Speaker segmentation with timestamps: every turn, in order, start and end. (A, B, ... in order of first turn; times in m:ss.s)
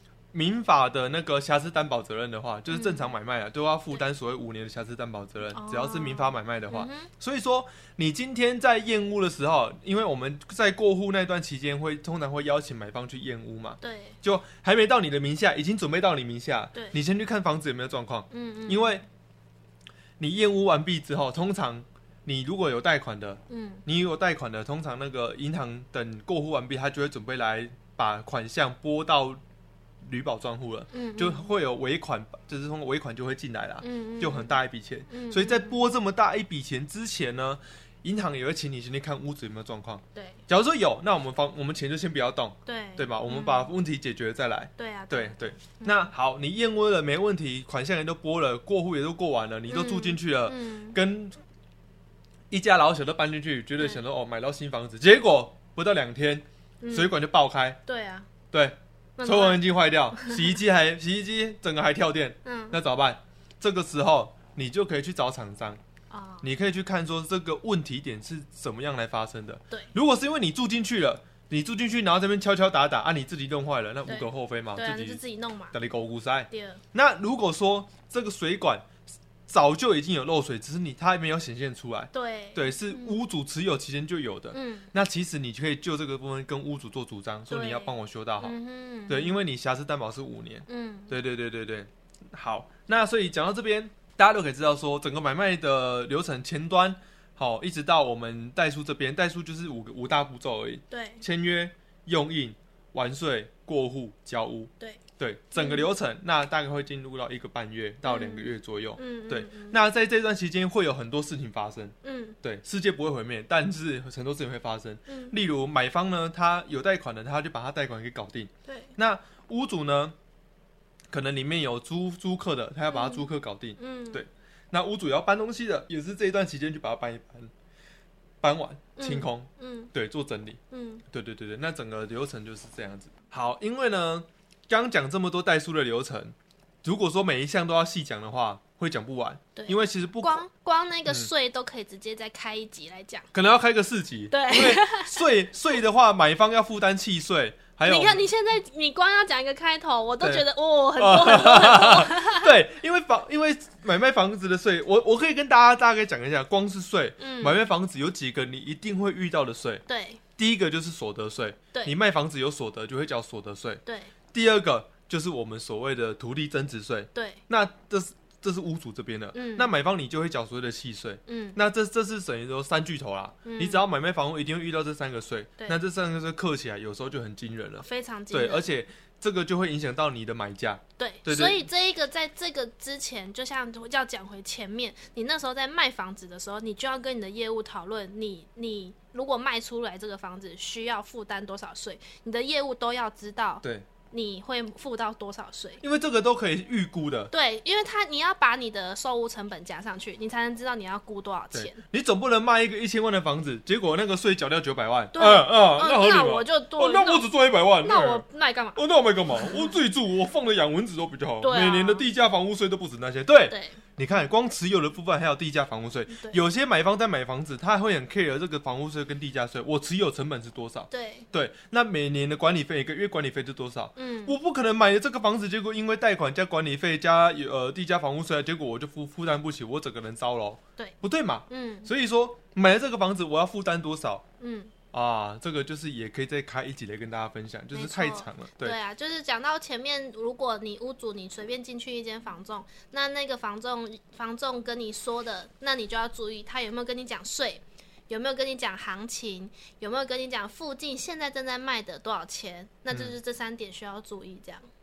0:00.3-0:19.0 A
0:02.7-0:03.1 B
0:05.5-0:07.1 B
0:13.8-0:14.2 B
0:18.3-0:19.0 B
0:20.2-0:29.4 A
0:23.5-0:23.8 B
0:30.0-0:51.4 A
0:30.9-0:31.5 B
0:33.8-0:35.8 B
0:40.1-0:40.4 B
0:42.6-0:43.7 B
0:44.8-0:46.1 B
0:49.7-0:51.0 B
0:52.5-0:57.8 A
0:56.8-0:57.1 B
0:57.8-0:58.3 B
0:58.5-1:05.8 A
0:59.2-1:00.5 B
1:02.4-1:02.8 B
1:06.1-1:06.5 B
1:06.4-1:15.2 A
1:14.0-1:15.7 B
1:15.7-1:18.9 A
1:16.5-1:16.8 B
1:19.5-1:28.6 A
1:22.1-1:23.2 B
1:24.5-1:24.9 B
1:27.5-1:29.4 B
1:29.1-2:00.2 A
1:30.7-1:31.2 B
1:40.9-1:41.2 B
1:45.5-1:45.9 B
1:48.0-1:49.8 B
1:52.0-1:52.4 B
1:55.1-1:55.3 B
1:58.7-1:58.9 B
2:01.1-2:07.5 A
2:02.9-2:04.2 B
2:08.4-2:20.4 A
2:09.0-2:09.9 B
2:10.7-2:11.0 B
2:19.6-2:23.3 B
2:23.3-2:28.2 A
2:24.3-2:25.2 B
2:27.8-2:32.5 B
2:30.2-2:39.8 A
2:37.2-2:37.6 B
2:39.9-2:40.2 B
2:40.4-3:01.6 A
2:43.8-2:44.1 B
2:47.1-2:47.4 B
2:49.3-2:49.7 B
2:51.3-2:51.6 B
2:53.4-2:53.8 B
2:57.8-2:58.6 B
3:01.0-3:15.8 B
3:15.8-3:17.3 A
3:17.3-3:21.8 B
3:21.5-3:54.2 A
3:25.1-3:27.3 B
3:27.8-3:29.7 B
3:31.4-3:32.0 B
3:33.5-3:33.8 B
3:36.1-3:36.4 B
3:40.9-3:41.2 B
3:44.0-3:44.4 B
3:51.5-3:51.9 B
3:54.4-3:54.7 B
3:54.9-3:58.8 A
3:57.7-4:14.6 B
4:12.9-4:13.1 A